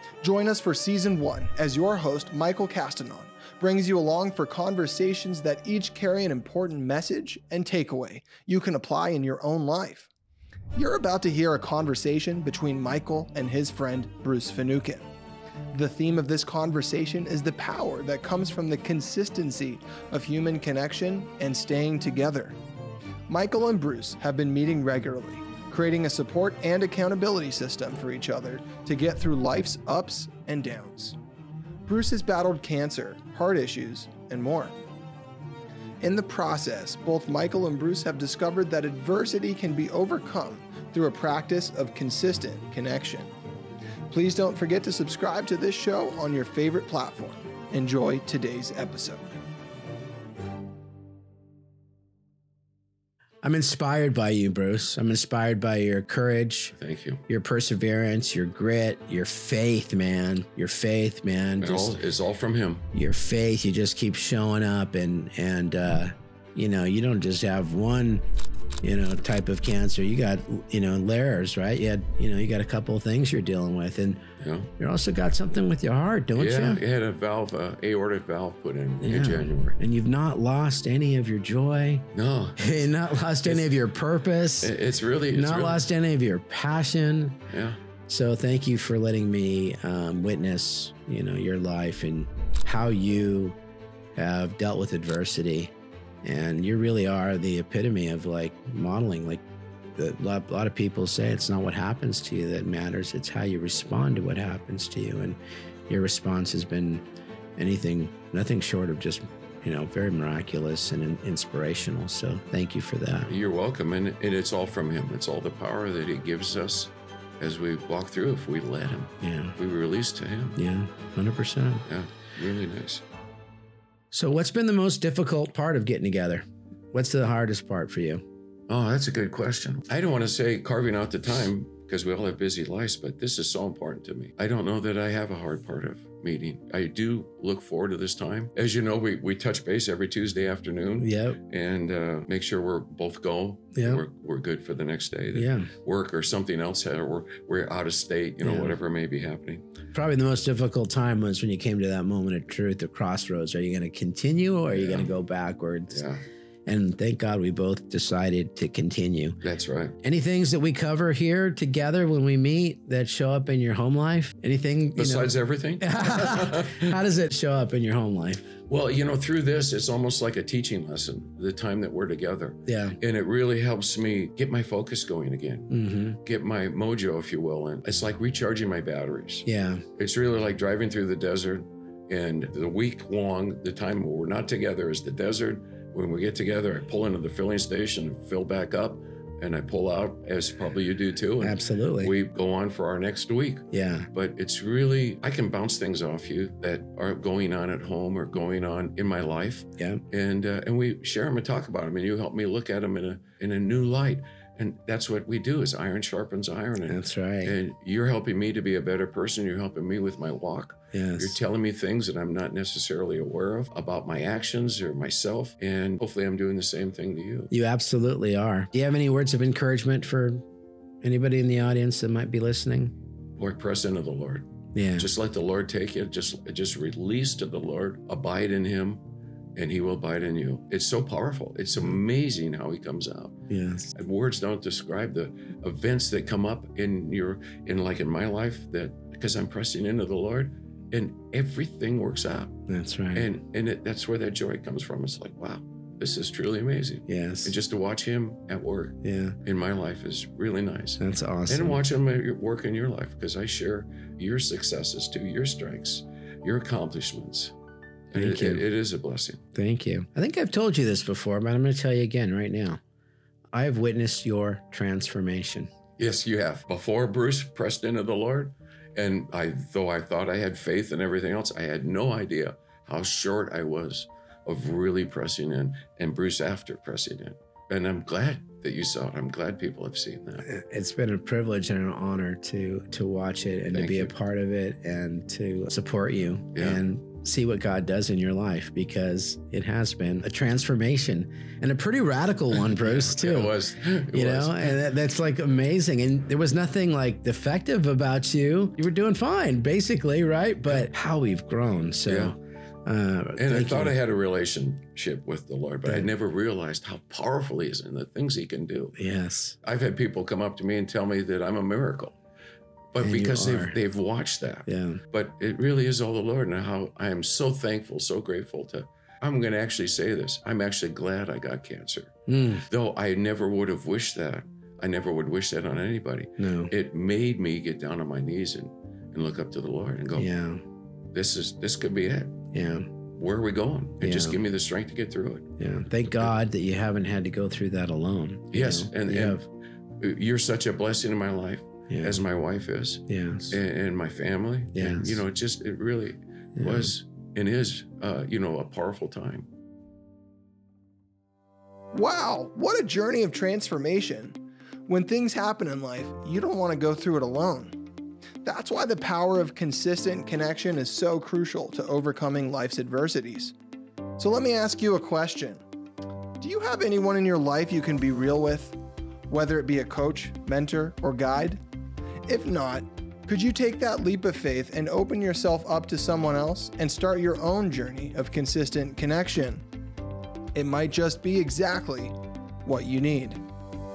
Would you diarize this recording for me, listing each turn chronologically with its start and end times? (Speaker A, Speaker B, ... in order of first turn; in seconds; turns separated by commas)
Speaker A: 0.2-10.1, Speaker A: 10.8-15.1, Speaker A: 15.7-22.6, Speaker A: 23.3-31.2, Speaker A: 31.9-34.8, Speaker A: 36.0-43.3, Speaker A: 44.1-49.4, Speaker B: 53.4-56.8, Speaker C: 56.8-57.2, Speaker B: 57.3-62.0, Speaker C: 61.6-62.9, Speaker B: 62.9-68.2, Speaker B: 68.8-74.2, Speaker C: 74.4-74.7, Speaker B: 74.8-76.8, Speaker C: 76.4-79.8, Speaker B: 79.0-82.1, Speaker C: 82.1-82.9, Speaker B: 82.6-84.7, Speaker C: 83.4-83.7, Speaker C: 84.6-85.8, Speaker B: 85.3-87.4, Speaker C: 87.5-87.8, Speaker B: 88.1-93.6, Speaker B: 94.2-95.7, Speaker B: 96.2-99.4, Speaker B: 100.0-107.0, Speaker B: 107.6-113.3, Speaker C: 113.3-120.6, Speaker B: 119.2-119.5, Speaker B: 120.6-121.8, Speaker C: 121.9-123.0, Speaker B: 124.1-128.2, Speaker C: 128.7-149.6, Speaker B: 141.0-141.4, Speaker B: 143.8-144.0, Speaker B: 145.3-145.7, Speaker B: 148.4-148.8, Speaker B: 149.9-156.0, Speaker C: 154.7-155.2, Speaker C: 155.9-156.2, Speaker B: 156.7-159.4, Speaker C: 159.4-160.0, Speaker B: 160.0-168.5, Speaker C: 165.0-166.9, Speaker C: 168.7-175.7, Speaker B: 172.7-173.0, Speaker B: 175.7-176.2, Speaker C: 176.2-179.5, Speaker B: 179.4-179.8, Speaker C: 180.0-217.5, Speaker B: 191.4-192.1, Speaker B: 193.7-194.1, Speaker B: 206.9-207.6, Speaker B: 210.9-211.4, Speaker B: 217.5-220.4, Speaker B: 221.0-222.9, Speaker C: 223.4-229.0, Speaker B: 224.7-225.1, Speaker C: 229.6-233.3, Speaker B: 233.5-233.9, Speaker C: 233.9-242.6, Speaker B: 242.7-243.3, Speaker C: 243.1-257.5, Speaker B: 247.1-247.6, Speaker B: 249.0-249.4, Speaker B: 251.0-251.8, Speaker C: 258.1-259.4, Speaker B: 258.1-258.7, Speaker B: 259.6-262.8, Speaker B: 263.5-265.7, Speaker C: 266.0-280.4, Speaker B: 280.4-293.6, Speaker C: 283.7-284.1, Speaker C: 286.5-286.8, Speaker C: 292.5-294.8, Speaker B: 294.1-303.9, Speaker C: 302.1-302.4, Speaker C: 303.4-309.0, Speaker B: 309.0-309.6, Speaker C: 309.6-312.1, Speaker C: 312.9-322.1, Speaker B: 313.0-313.8, Speaker B: 314.7-315.0, Speaker B: 322.3-322.7, Speaker C: 322.7-330.3, Speaker B: 326.4-326.7, Speaker B: 330.2-330.6, Speaker C: 331.1-332.4, Speaker B: 332.5-332.9, Speaker C: 333.2-335.5, Speaker B: 334.0-334.4, Speaker B: 335.6-339.5, Speaker C: 338.5-339.4, Speaker C: 340.0-349.5, Speaker B: 341.9-342.2, Speaker B: 343.1-343.6, Speaker B: 344.8-345.2, Speaker B: 346.6-346.9, Speaker A: 351.9-357.8, Speaker A: 358.4-363.6, Speaker A: 364.2-365.6, Speaker A: 366.4-368.8, Speaker A: 369.3-371.6, Speaker A: 372.3-379.6, Speaker A: 380.6-383.4